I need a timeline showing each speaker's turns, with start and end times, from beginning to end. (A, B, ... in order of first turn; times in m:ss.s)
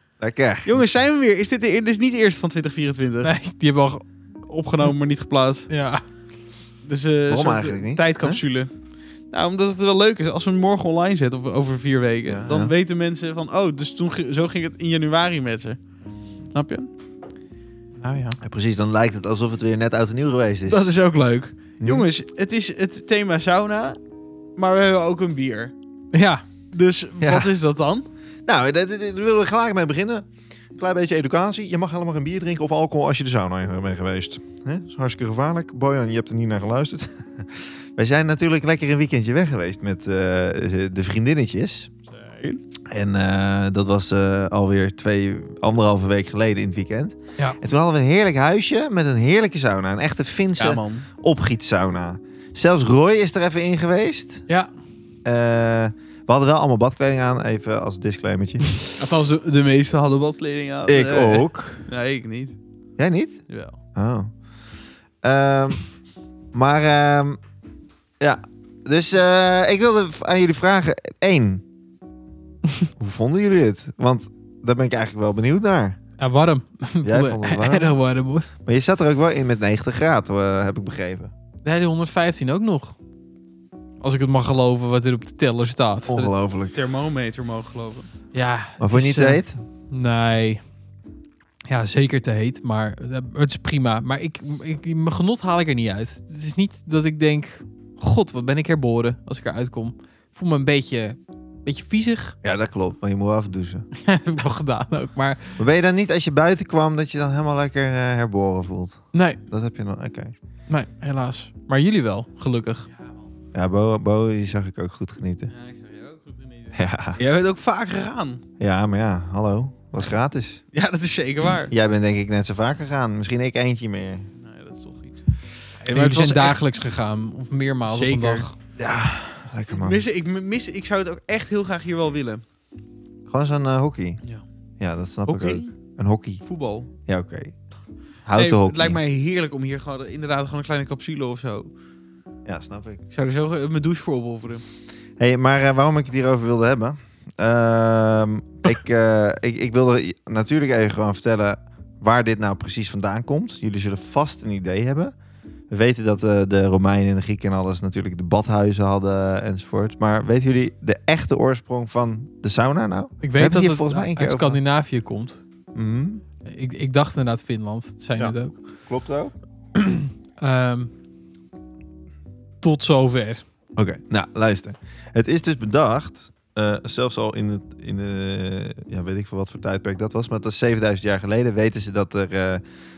0:00.2-0:00.8 A
0:00.6-0:03.3 B
0:03.2-0:04.0 C
0:04.4-0:05.7 B
0:05.7-0:06.0 C
0:06.8-0:08.7 B
0:07.3-0:08.4 A
0:09.3-0:15.8 B
0:12.3-0:12.7 A
0:16.5-0:16.9 B
0:18.0-0:18.4 C
0:18.4-0:20.9 A
0:20.7-0:24.0 B
0:21.8-0:22.1 A
0:24.6-0:25.7 B
0:26.1-0:26.4 C
0:26.7-0:28.1 B
0:27.2-0:27.5 A
0:28.5-0:41.9 A
0:42.1-0:42.6 B
0:42.9-0:54.5 A
0:50.6-0:51.1 B
0:55.2-0:58.8 A
0:59.0-1:02.6 B
1:00.9-1:01.8 A
1:03.0-1:03.4 A
1:03.5-1:03.8 B
1:03.9-1:04.3 A
1:05.2-1:05.8 A
1:06.5-1:07.4 A
1:08.2-1:11.6 A
1:13.0-1:16.0 A
1:16.2-1:18.5 C
1:17.0-1:18.0 A
1:18.7-1:21.3 A
1:21.6-1:22.9 C
1:24.0-1:26.3 C
1:26.1-1:26.8 A
1:26.7-1:28.1 B
1:28.3-1:30.6 C
1:28.8-1:29.6 A
1:31.7-1:42.4 C
1:42.4-1:43.9 A
1:44.0-1:45.5 C
1:45.6-1:50.3 A
1:49.1-1:49.4 C
1:50.7-1:52.9 C
1:52.9-1:53.3 B
1:53.5-1:55.5 A
1:55.5-1:58.4 B
1:56.7-1:57.2 A
1:58.6-2:00.6 A
2:00.7-2:01.7 B
2:01.7-2:04.3 A
2:04.4-2:05.2 B
2:05.8-2:06.6 B
2:05.9-2:08.6 C
2:07.9-2:08.5 B
2:08.8-2:10.1 A
2:09.7-2:12.4 B
2:13.3-2:14.2 A
2:14.8-2:16.4 A
2:15.3-2:15.8 B
2:16.4-2:16.9 B
2:17.1-2:17.6 A
2:18.2-2:19.0 A
2:18.4-2:21.7 B
2:22.4-2:23.0 A
2:23.1-2:24.6 B
2:25.2-2:35.2 A
2:35.7-2:44.6 A
2:43.2-2:45.4 C
2:45.8-2:46.2 A
2:46.4-2:48.6 C
2:48.2-2:49.3 A
2:49.8-2:50.9 C
2:52.6-2:53.4 C
2:53.8-3:02.6 A